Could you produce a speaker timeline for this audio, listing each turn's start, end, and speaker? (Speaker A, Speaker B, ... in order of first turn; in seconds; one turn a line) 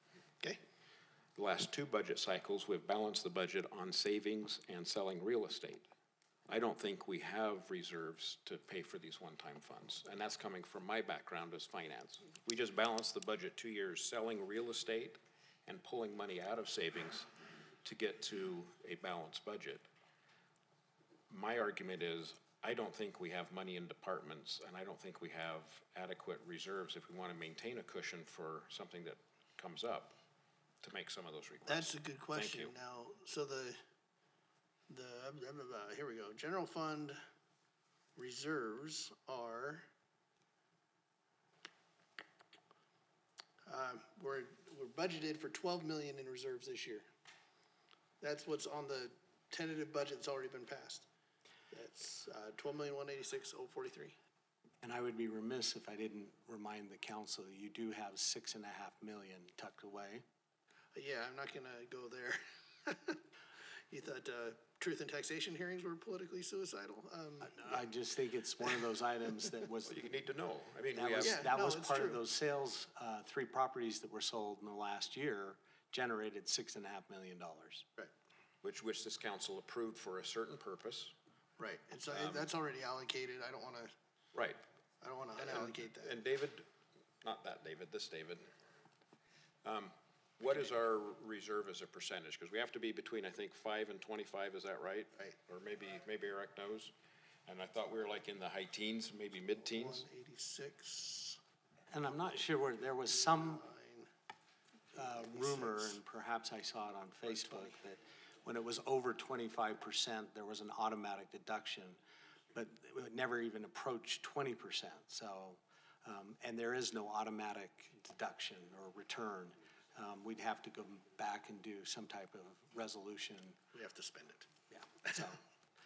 Speaker A: 1.4-5.9
Speaker A: 6.5-17.3
Speaker A: 17.8-19.8
Speaker A: 21.3-30.2
Speaker A: 30.8-32.7
Speaker B: 31.7-33.8
Speaker B: 34.9-37.2
Speaker B: 38.2-39.8
Speaker B: 43.7-47.0
Speaker B: 48.2-51.1
Speaker B: 51.7-54.1
Speaker C: 54.8-60.2
Speaker B: 61.0-63.2
Speaker B: 63.9-67.8
Speaker C: 67.4-70.1
Speaker A: 69.8-71.5
Speaker C: 70.9-77.8
Speaker B: 71.2-72.2
Speaker A: 78.6-81.1
Speaker B: 81.6-83.9
Speaker A: 82.1-82.5
Speaker A: 84.3-84.6
Speaker B: 85.0-86.2
Speaker A: 85.4-86.7
Speaker A: 87.2-88.4
Speaker A: 89.6-96.9
Speaker A: 97.5-100.0
Speaker B: 99.6-101.4
Speaker C: 101.9-103.6
Speaker B: 103.0-104.1
Speaker C: 104.9-112.0
Speaker B: 105.2-106.0
Speaker B: 107.3-107.7
Speaker C: 112.5-123.6
Speaker B: 123.7-124.5
Speaker C: 124.7-125.4